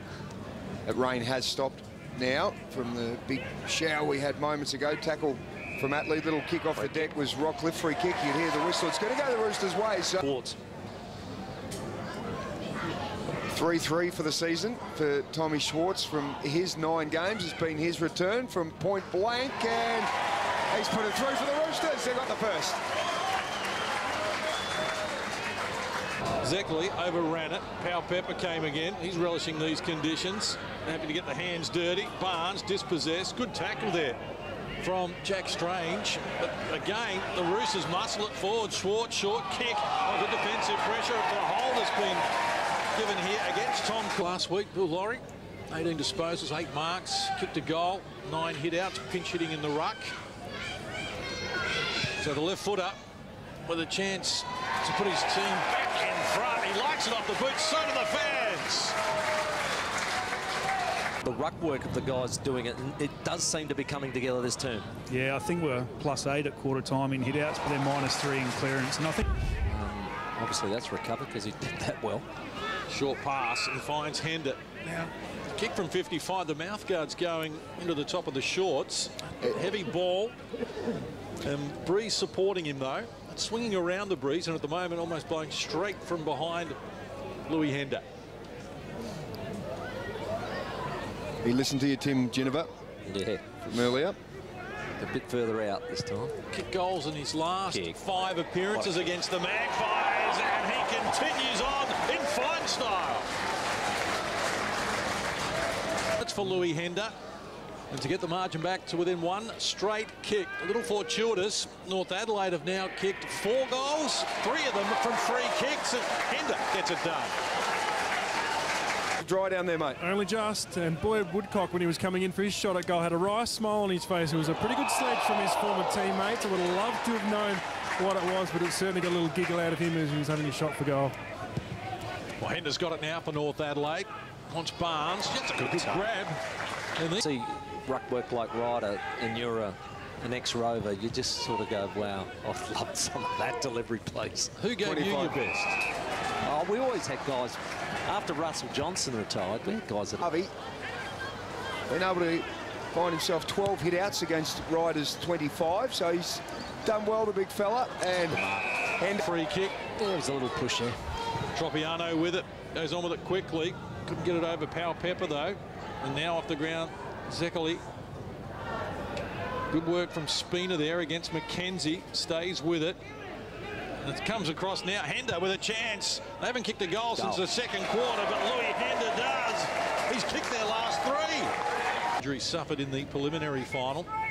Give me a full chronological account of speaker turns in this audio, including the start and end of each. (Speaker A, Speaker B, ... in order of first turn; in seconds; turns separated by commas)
Speaker A: 0.8-10.2, Speaker B: 6.8-7.1, Speaker B: 10.2-10.6, Speaker A: 13.5-20.1, Speaker A: 20.7-22.8, Speaker C: 26.4-34.2, Speaker C: 34.8-42.2, Speaker C: 42.9-50.1, Speaker C: 52.2-53.0, Speaker C: 53.6-59.0, Speaker B: 61.2-64.9, Speaker D: 65.1-69.3, Speaker B: 69.7-72.2, Speaker C: 72.9-80.3, Speaker C: 81.4-86.8, Speaker C: 87.5-88.1, Speaker A: 91.4-92.7, Speaker B: 93.0-93.5, Speaker A: 93.6-94.2, Speaker B: 95.0-96.3, Speaker C: 96.5-103.3, Speaker B: 97.7-98.0, Speaker B: 98.7-99.1, Speaker C: 106.2-107.2, Speaker C: 107.9-117.4, Speaker A: 119.2-120.0, Speaker E: 120.0-131.1, Speaker C: 132.4-136.4, Speaker C: 137.0-137.2, Speaker B: 137.2-144.5, Speaker C: 144.6-145.8, Speaker A: 144.8-145.4, Speaker B: 146.4-150.2, Speaker A: 150.2-150.5, Speaker A: 151.9-158.4, Speaker B: 158.3-158.7, Speaker A: 158.9-159.2, Speaker C: 159.2-159.8, Speaker B: 159.9-160.9, Speaker C: 161.5-167.8, Speaker C: 169.7-173.0, Speaker C: 174.0-181.6, Speaker B: 177.2-177.5, Speaker C: 182.2-184.1